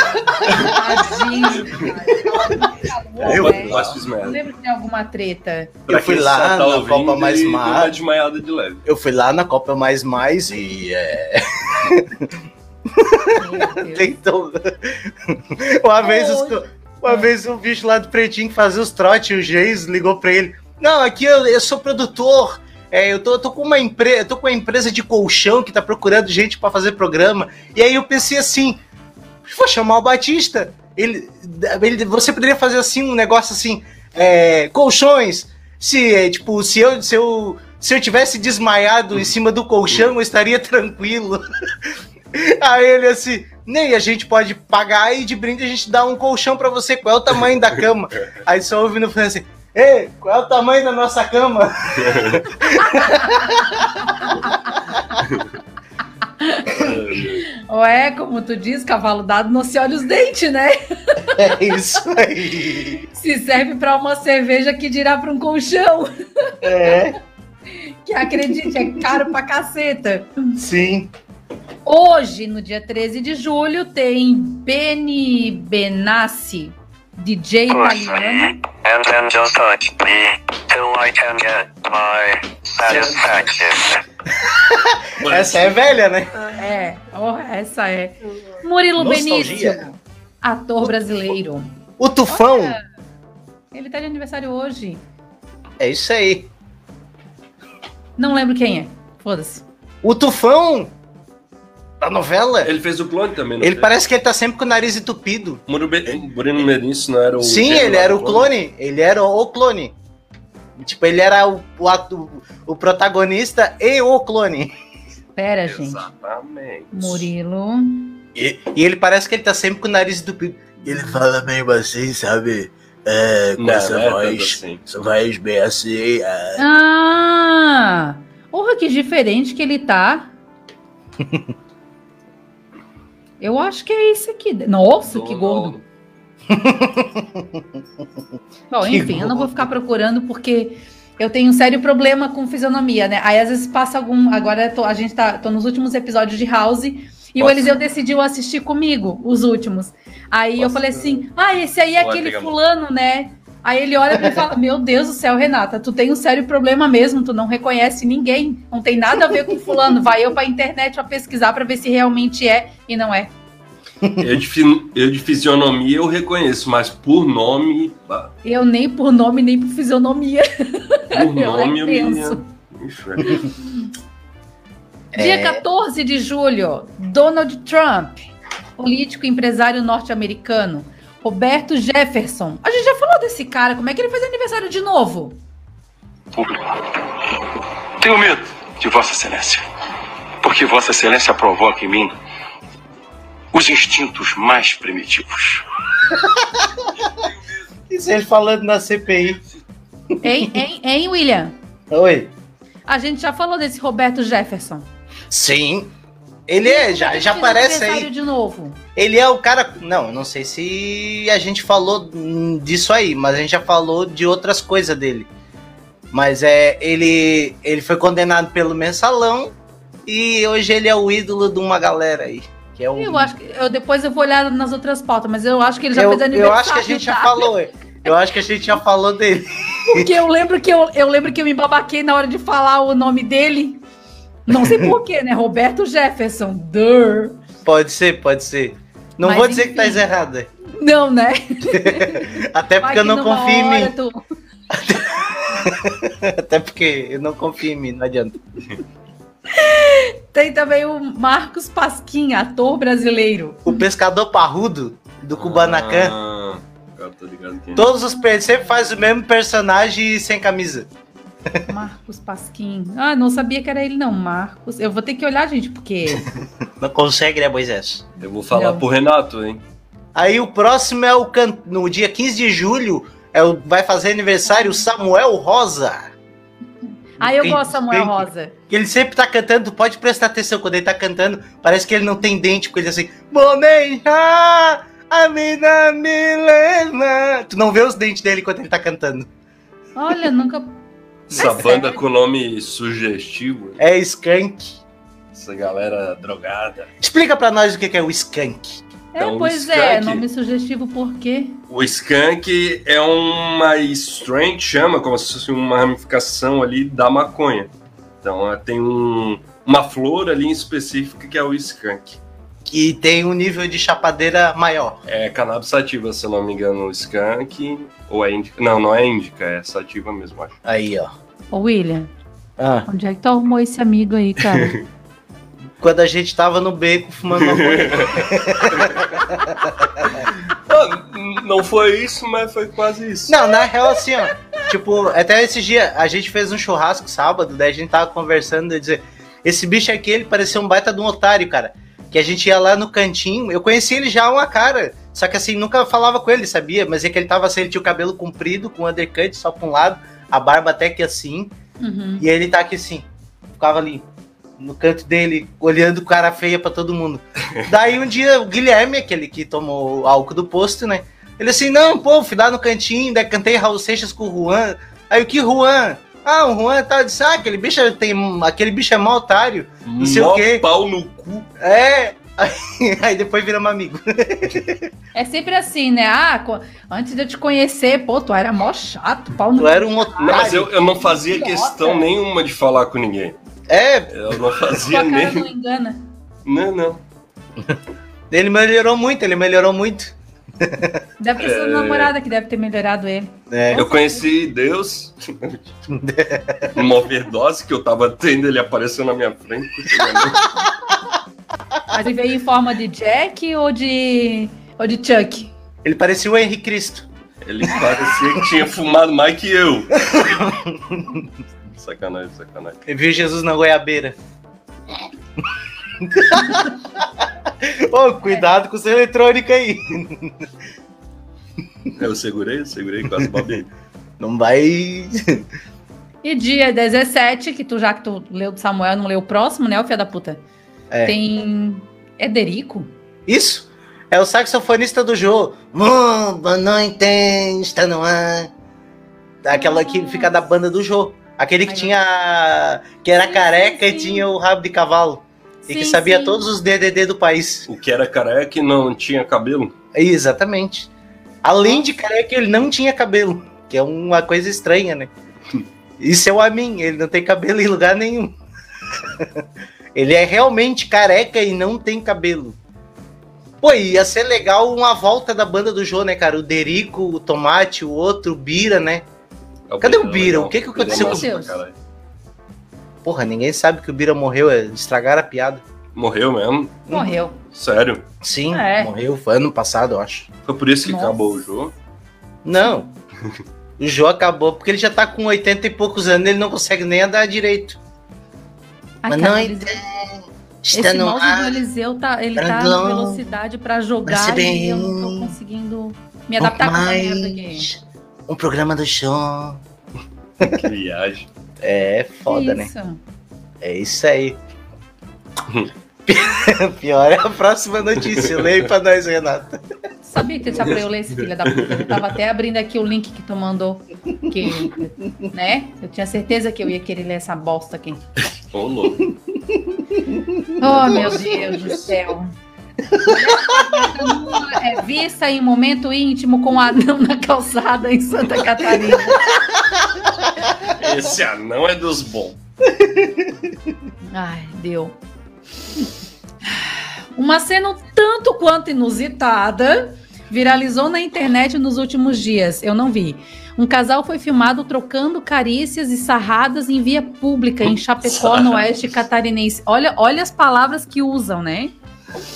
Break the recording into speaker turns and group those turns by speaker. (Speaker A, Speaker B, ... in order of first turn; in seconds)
Speaker A: 0.4-5.7, 13.3-14.1, 16.0-17.3, 54.2-54.7, 56.4-56.7, 57.5-61.4, 63.1-67.0, 68.0-70.3, 71.8-78.5, 86.6-91.7, 92.3-92.8, 93.7-95.0, 98.2-99.6, 115.3-116.0, 116.9-118.2, 120.9-121.2, 126.5-130.3, 133.4-135.8, 138.7-163.3, 168.4-172.4, 175.2-185.4, 200.2-201.6, 202.9-204.9, 206.6-208.8, 222.9-227.5, 229.9-233.8, 234.4-237.4, 239.2-240.0, 240.8-244.2, 249.5-253.8, 257.8-258.8, 261.7-266.2, 268.5-268.8, 274.4-274.8, 277.2-278.6, 289.9-290.8, 291.3-292.0, 299.1-301.6, 321.5-322.1, 322.9-324.7, 351.8-352.2, 375.1-382.1, 384.8-386.1, 391.2-394.3, 401.9-405.5, 426.2-430.4, 431.0-432.9, 439.5-440.4, 441.6-441.9, 443.1-444.3, 445.6-446.5, 470.9-471.6, 476.9-477.4, 478.5-478.9, 480.9-481.4, 482.6-482.9, 489.0-489.8, 490.7-497.7, 502.3-503.0, 510.0-518.0, 520.6-522.3, 523.0-529.3, 534.1-535.0, 536.5-551.7
Speaker B: 3.2-4.0, 5.9-7.9, 8.8-12.3, 12.9-28.8, 29.4-53.9, 61.3-63.0, 66.6-67.2, 68.5-69.2, 70.6-71.1, 82.8-83.4, 84.4-86.3, 89.0-89.8, 92.0-92.8, 95.8-96.5, 100.0-100.9, 102.0-102.7, 103.6-105.6, 107.4-109.9, 110.8-114.7, 118.3-126.6, 131.2-131.5, 136.5-137.7, 138.8-139.7, 164.0-164.3, 175.1-175.6, 197.9-199.4, 201.9-202.3, 205.3-205.9, 206.5-208.1, 208.9-215.3, 216.1-219.5, 220.1-223.3, 225.9-230.1, 234.5-234.9, 237.6-240.5, 241.7-243.9, 244.7-248.4, 253.6-256.1, 257.7-260.9, 266.8-268.0, 270.1-276.1, 277.2-289.3, 293.8-294.8, 297.0-298.8, 312.6-315.0, 320.6-321.1, 322.6-322.9, 325.8-330.2, 333.3-351.5, 352.2-354.1, 354.6-370.6, 371.6-374.9, 379.6-380.7, 383.7-384.1, 388.3-391.0, 393.5-393.9, 395.9-396.7, 405.8-407.1, 410.0-411.2, 412.9-414.1, 416.0-420.4, 424.2-425.4, 433.3-438.5, 439.4-447.7, 449.9-450.9, 451.4-455.1, 456.0-458.4, 459.2-459.4, 459.9-462.6, 463.6-469.0, 469.8-471.3, 473.0-475.6, 478.2-480.3, 482.4-482.9, 483.8-487.8, 489.1-491.6, 492.4-493.3, 494.1-495.3, 496.4-499.6, 501.6-502.7, 503.6-504.4, 506.1-509.6, 519.7-521.7, 523.1-523.6, 532.8-533.2
Speaker C: 3.2-4.4, 5.9-8.8, 52.0-52.4, 55.2-55.5, 56.7-57.4, 85.2-85.9, 102.6-103.9, 105.7-108.5, 115.7-117.3, 123.6-124.8, 135.1-135.8, 147.4-147.7, 150.6-151.1, 152.0-152.5, 164.2-168.3, 171.1-173.4, 255.3-257.8, 268.2-269.6, 291.3-293.8, 295.3-296.9, 299.2-300.2, 301.7-307.7, 308.2-312.2, 315.1-320.5, 324.6-324.8, 327.4-329.1, 330.2-333.3, 369.8-371.5, 380.2-383.4, 384.1-385.4, 386.4-387.0, 391.4-392.1, 393.7-395.7, 396.7-400.5, 407.4-410.1, 411.7-412.8, 421.9-423.7, 447.7-449.7, 469.7-471.7, 475.9-476.8, 477.5-478.1, 480.4-481.7, 500.4-501.3, 508.1-508.4, 511.4-511.9, 518.5-519.0, 530.7-532.4, 548.1-548.6
Speaker D: 77.7-84.0
Speaker E: 188.0-189.6, 190.4-192.1, 193.5-195.6